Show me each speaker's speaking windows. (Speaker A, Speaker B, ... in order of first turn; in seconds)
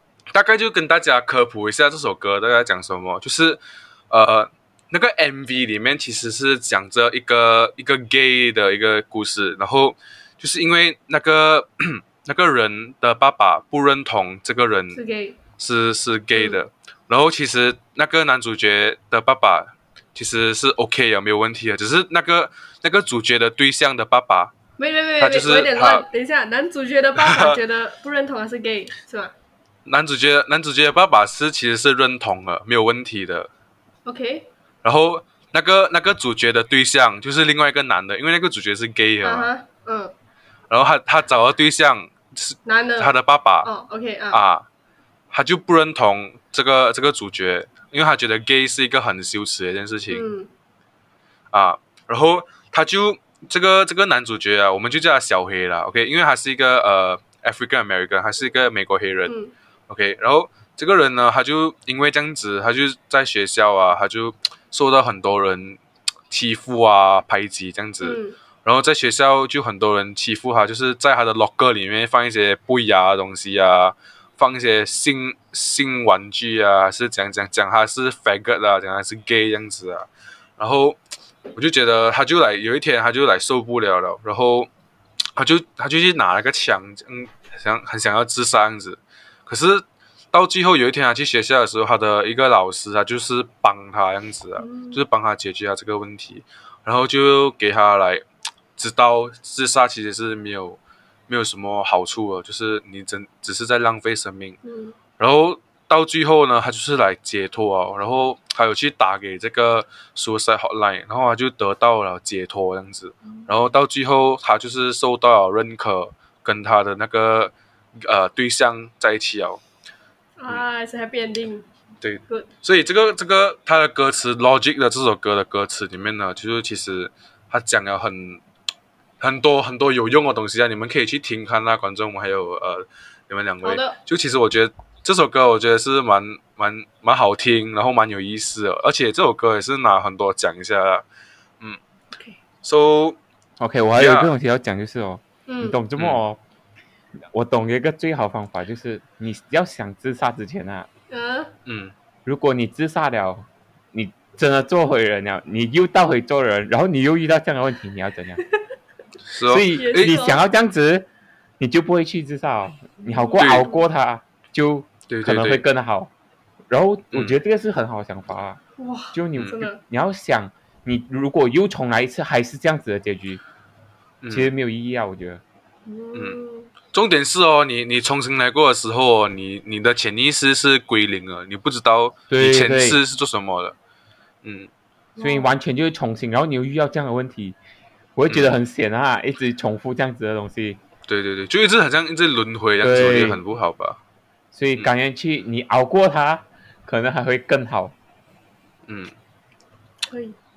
Speaker A: 0.3-15.0, 15.6-24.5, 25.2-26.1, 27.1-27.6, 29.9-33.5, 34.8-39.5, 40.7-43.7, 44.3-44.6, 45.3-50.3, 51.5-59.3, 59.9-65.8, 66.3-80.1, 80.6-81.0, 81.5-84.7, 85.3-98.2, 98.8-104.6, 105.2-119.6, 122.0-128.4, 129.2-141.0, 142.6-143.2, 143.9-144.3, 146.0-146.2, 151.7-151.9, 159.2-160.2, 163.4-163.7, 165.1-165.6, 167.1-167.4, 169.4-169.6, 174.2-174.5, 176.9-183.7, 184.4-184.7, 191.1-194.0, 198.9-199.1
Speaker B: 14.9-15.4, 16.3-16.6, 24.8-29.3, 34.0-34.5, 39.2-40.1, 42.6-44.4, 50.1-50.5, 59.3-59.5, 68.0-68.3, 94.6-95.0, 104.6-104.9, 113.2-113.5, 120.4-121.7, 133.6-134.0, 145.5-145.8, 151.1-151.5, 159.7-160.4, 163.0-163.9, 168.8-169.8, 175.8-176.7, 185.2-185.5, 200.1-200.4
Speaker C: 143.6-146.4, 147.3-150.9, 152.2-158.4, 159.5-161.1, 161.6-166.1, 166.7-168.6, 169.1-173.4, 174.3-175.4, 182.3-183.0, 185.2-187.6, 188.2-190.8, 192.8-193.4, 194.5-197.9